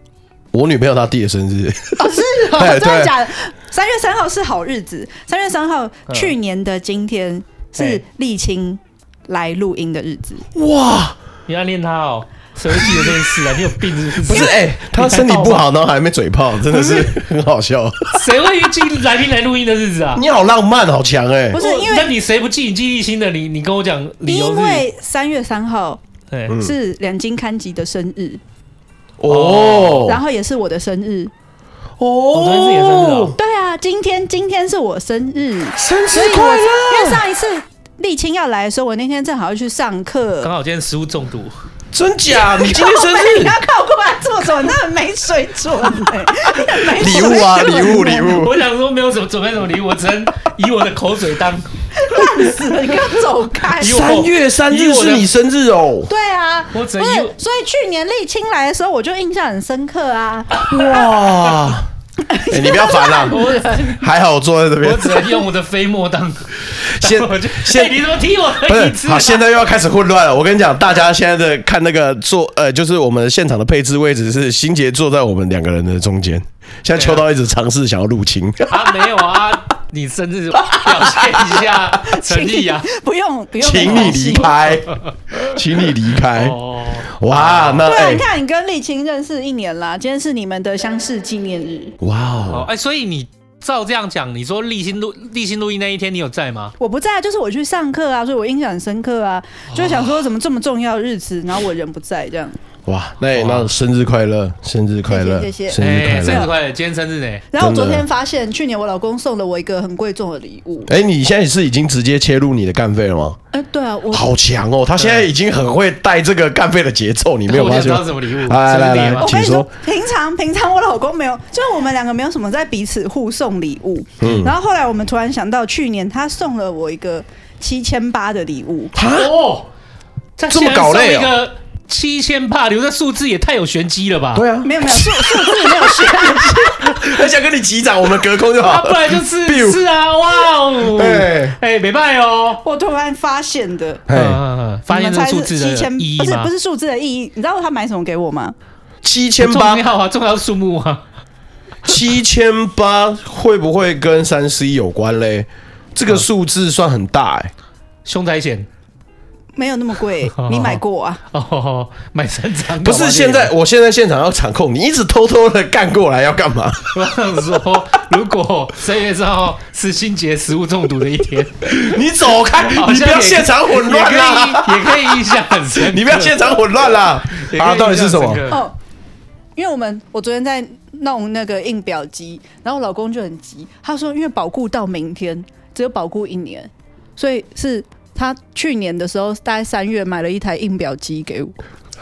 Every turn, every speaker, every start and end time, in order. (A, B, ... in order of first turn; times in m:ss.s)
0:00.5-0:03.1 A
0:02.0-0:10.4 B
0:06.1-0:06.4 C
0:07.8-0:08.0 C
0:10.5-0:11.2 A
0:11.5-0:15.6 C
0:14.2-0:18.2 A
0:16.7-0:17.1 C
0:18.1-0:20.2 C
0:20.1-0:21.6 A
0:21.5-0:22.1 B
0:21.6-0:24.8 C
0:24.2-0:26.0 B
0:26.6-0:28.4 B
0:29.2-0:30.2 A
0:29.3-0:30.1 C
0:30.0-0:31.3 B
0:32.0-0:33.4 A
0:32.3-0:33.4 C
0:33.4-0:40.5 B
0:35.8-0:37.2 A
0:40.4-0:41.5 C
0:41.9-0:43.6 A
0:42.3-0:48.4 B
0:46.9-0:48.5 A
0:47.6-0:51.6 C
0:52.0-0:54.1 B
0:53.8-0:55.3 C
0:53.8-0:56.1 A
0:56.1-1:00.7 B
0:56.7-0:57.3 C
1:00.7-1:01.9 A
1:02.2-1:04.0 B
1:02.5-1:03.4 A
1:03.3-1:03.8 C
1:04.0-1:05.4 A
1:04.8-1:09.4 C
1:06.8-1:08.0 A
1:08.6-1:18.9 A
1:16.9-1:17.2 C
1:18.7-1:22.9 C
1:20.6-1:21.4 A
1:22.1-1:24.6 B
1:23.6-1:26.6 A
1:23.8-1:24.1 C
1:26.3-1:28.0 C
1:27.2-1:28.2 A
1:27.8-1:32.0 B
1:32.0-1:32.7 A
1:32.5-1:36.7 C
1:36.8-1:42.6 B
1:39.7-1:40.1 C
1:42.9-1:46.5 A
1:43.3-1:43.7 C
1:45.1-1:46.5 B
1:45.8-1:47.4 C
1:47.5-1:50.9 B
1:47.6-1:48.0 A
1:50.9-1:53.4 A
1:53.5-1:54.3 B
1:54.1-1:59.7 A
1:55.0-1:55.3 C
1:57.5-1:59.4 C
1:59.2-2:08.9 B
2:04.2-2:04.5 A
2:08.9-2:09.3 A
2:09.1-2:09.7 C
2:10.4-2:14.5 C
2:10.5-2:11.3 A
2:14.4-2:15.6 A
2:14.6-2:16.9 B
2:16.8-2:19.8 A
2:18.4-2:22.6 C
2:20.8-2:21.6 A
2:22.6-2:24.0 B
2:24.1-2:24.4 A
2:24.1-2:26.5 C
2:24.9-2:28.5 B
2:29.0-2:29.8 A
2:29.4-2:31.0 C
2:31.8-2:37.5 A
2:38.0-2:38.7 C
2:39.5-2:41.2 B
2:40.4-2:40.8 C
2:41.3-2:43.5 C
2:42.8-2:47.0 A
2:46.9-2:56.7 C
2:51.6-2:58.4 A
2:57.3-2:58.7 C
2:58.5-2:58.8 B
2:59.6-3:11.6 B